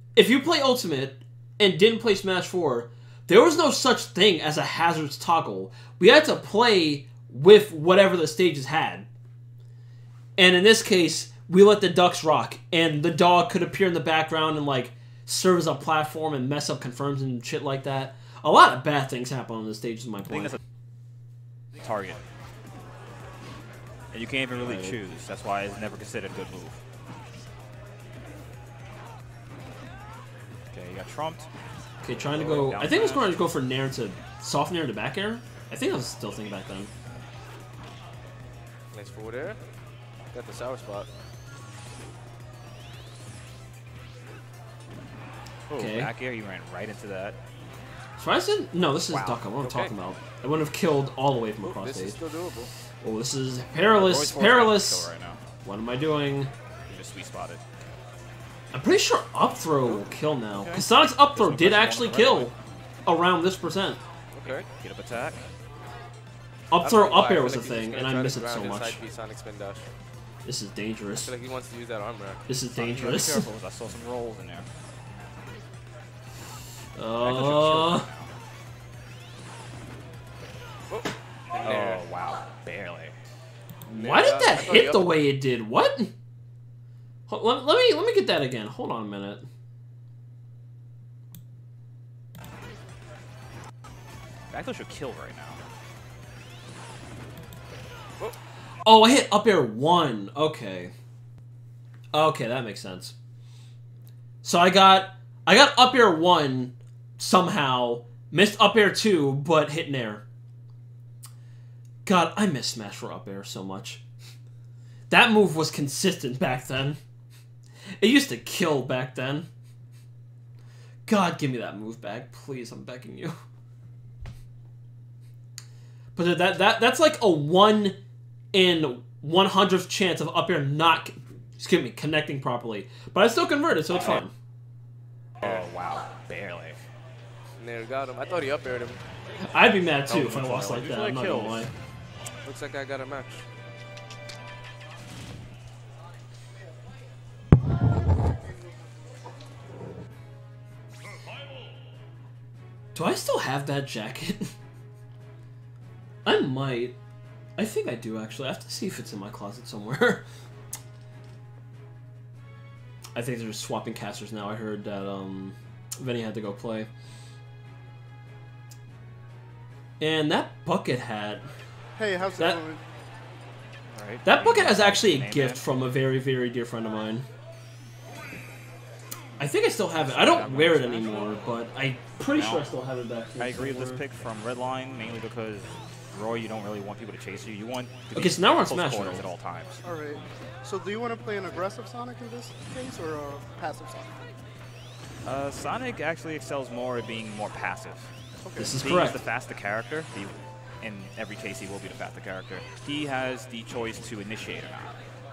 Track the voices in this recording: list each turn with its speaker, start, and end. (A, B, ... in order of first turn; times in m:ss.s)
0:00.2-0:09.1 A
0:10.4-0:20.6 A
0:20.3-0:20.6 B
0:21.8-0:22.2 B
0:24.1-0:26.8 B
0:24.6-0:25.0 A
0:30.7-0:31.5 B
0:32.0-0:36.9 A
0:32.2-0:33.4 B
0:38.9-0:39.6 C
0:40.3-0:41.1 C
0:45.7-0:47.4 B
0:45.8-0:46.1 A
0:48.2-0:52.2 A
0:49.1-0:49.4 B
0:49.6-0:49.9 C
0:51.6-0:52.7 C
0:53.0-0:55.1 A
0:53.9-0:55.4 B
0:55.6-0:56.5 A
0:56.9-0:57.6 B
0:58.7-1:02.5 A
1:00.5-1:02.6 B
1:03.1-1:04.0 A
1:04.3-1:04.7 C
1:04.4-1:05.4 B
1:06.7-1:09.0 A
1:06.8-1:09.9 C
1:10.5-1:11.3 A
1:11.2-1:12.4 C
1:12.5-1:13.5 A
1:12.8-1:14.7 B
1:17.0-1:18.1 A
1:17.2-1:18.3 B
1:20.9-1:22.0 C
1:21.6-1:23.1 B
1:23.9-1:25.1 C
1:23.9-1:26.1 A
1:27.3-1:29.4 A
1:34.5-1:35.6 B
1:38.8-1:40.9 A
1:42.1-1:43.2 A
1:44.4-1:50.2 A
1:52.0-1:54.0 A
1:55.1-1:57.0 A
1:58.0-1:59.5 A
2:01.1-2:03.4 A
2:06.2-2:08.0 A
2:08.5-2:14.3 A
2:15.4-2:16.8 B
2:17.6-2:19.0 C
2:19.5-2:21.7 A
2:20.1-2:21.7 B
2:22.4-2:23.4 C
2:33.0-2:34.5 A
2:36.2-2:37.0 A
2:37.6-2:40.2 A
2:43.2-2:46.9 A
2:50.0-2:51.4 A
2:52.0-2:52.9 D
2:53.9-2:55.6 B
2:54.2-2:57.2 A
2:59.4-3:04.0 A
3:00.0-3:01.5 B
3:02.4-3:02.7 B
3:03.4-3:09.8 B
3:08.1-3:09.2 A
3:09.8-3:14.2 D
3:15.2-3:18.1 B
3:18.4-3:18.8 D
3:18.6-3:19.2 A
3:18.8-3:25.0 B